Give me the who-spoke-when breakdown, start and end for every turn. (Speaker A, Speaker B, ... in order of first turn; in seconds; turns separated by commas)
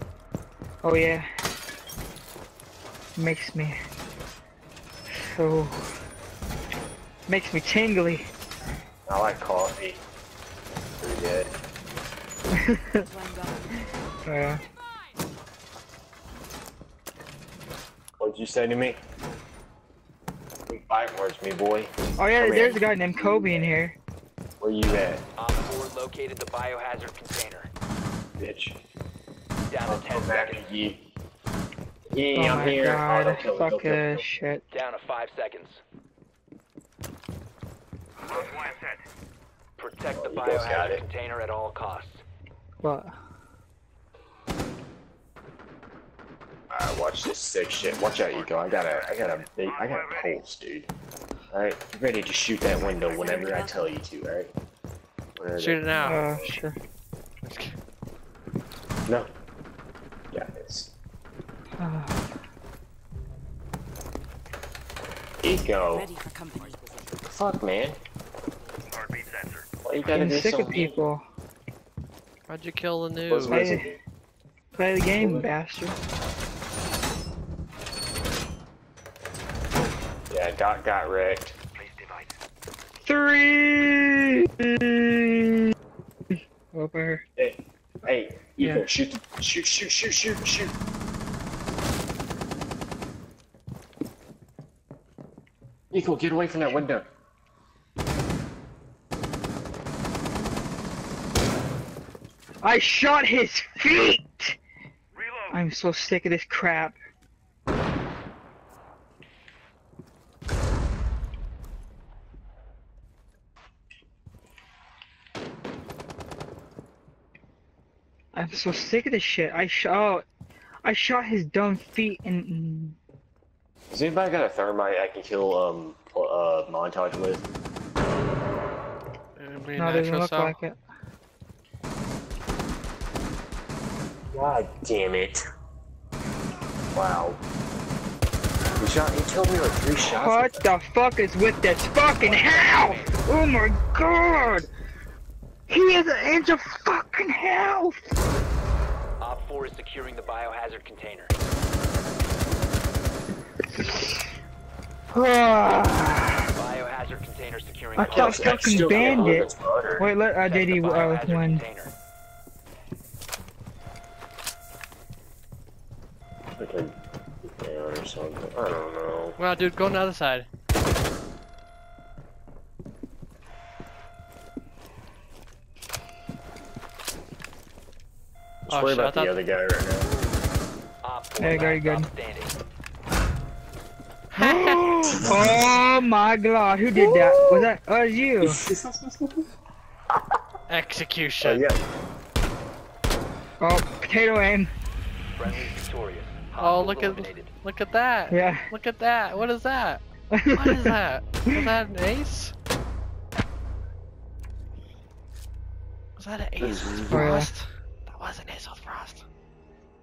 Speaker A: 0.8-1.3, Speaker A: 3.2-3.8, Speaker A: 5.1-5.8, Speaker A: 7.3-8.3, Speaker B: 9.1-10.0, Speaker B: 11.0-11.5, Speaker A: 12.5-13.1, Speaker C: 13.0-13.8, Speaker A: 14.3-14.6, Speaker B: 18.2-19.0, Speaker B: 20.7-23.8, Speaker A: 22.2-24.0, Speaker B: 24.6-25.2, Speaker D: 25.4-27.7, Speaker B: 28.4-28.8, Speaker D: 29.7-30.7, Speaker B: 29.9-31.0, Speaker B: 32.1-34.2, Speaker A: 32.4-34.6, Speaker D: 34.7-35.8, Speaker D: 38.3-38.8, Speaker D: 39.8-42.2, Speaker B: 40.1-41.0, Speaker A: 42.8-43.1, Speaker B: 46.7-50.9, Speaker D: 48.0-49.1, Speaker D: 49.7-50.2, Speaker B: 51.5-54.5, Speaker C: 52.9-53.9, Speaker B: 55.4-56.5, Speaker E: 55.6-56.2, Speaker A: 56.0-56.8, Speaker E: 57.4-57.8, Speaker B: 60.3-60.9, Speaker A: 61.8-62.2, Speaker B: 65.4-66.1, Speaker C: 65.9-67.2, Speaker B: 67.2-68.0, Speaker D: 68.9-69.7, Speaker B: 69.8-71.0, Speaker A: 70.1-71.2, Speaker E: 72.5-73.7, Speaker B: 73.3-74.0, Speaker A: 73.5-73.9, Speaker A: 74.8-76.0, Speaker B: 75.2-75.5, Speaker B: 80.3-81.6, Speaker D: 81.8-82.3, Speaker A: 83.0-85.6, Speaker A: 86.3-87.2, Speaker B: 87.4-90.7, Speaker B: 95.9-97.1, Speaker A: 102.6-104.6, Speaker A: 105.5-107.0, Speaker A: 118.3-120.2, Speaker A: 120.8-123.0, Speaker B: 123.9-127.5, Speaker E: 129.4-130.6, Speaker A: 129.8-130.8, Speaker B: 134.3-135.4, Speaker B: 136.9-137.4, Speaker B: 138.8-140.7, Speaker A: 140.0-144.7, Speaker D: 142.2-143.2, Speaker A: 145.7-148.1, Speaker D: 149.2-151.3, Speaker A: 153.7-154.2, Speaker A: 155.1-156.5, Speaker D: 156.6-159.5, Speaker A: 157.9-161.6, Speaker B: 158.0-160.1, Speaker D: 160.4-161.9, Speaker B: 166.6-169.4, Speaker E: 169.4-170.5, Speaker B: 178.7-180.1, Speaker E: 178.7-179.4, Speaker D: 181.0-182.5, Speaker A: 181.4-182.1, Speaker E: 184.3-185.2, Speaker A: 184.3-188.6, Speaker B: 185.2-185.6, Speaker B: 186.9-187.7, Speaker B: 188.4-189.4, Speaker E: 190.7-191.7, Speaker B: 191.4-191.8, Speaker A: 193.6-194.7, Speaker D: 195.4-197.5, Speaker E: 196.6-200.0, Speaker A: 198.3-198.7, Speaker A: 200.3-201.0, Speaker E: 200.5-202.5, Speaker E: 206.2-209.2, Speaker B: 206.6-207.4, Speaker A: 207.1-207.5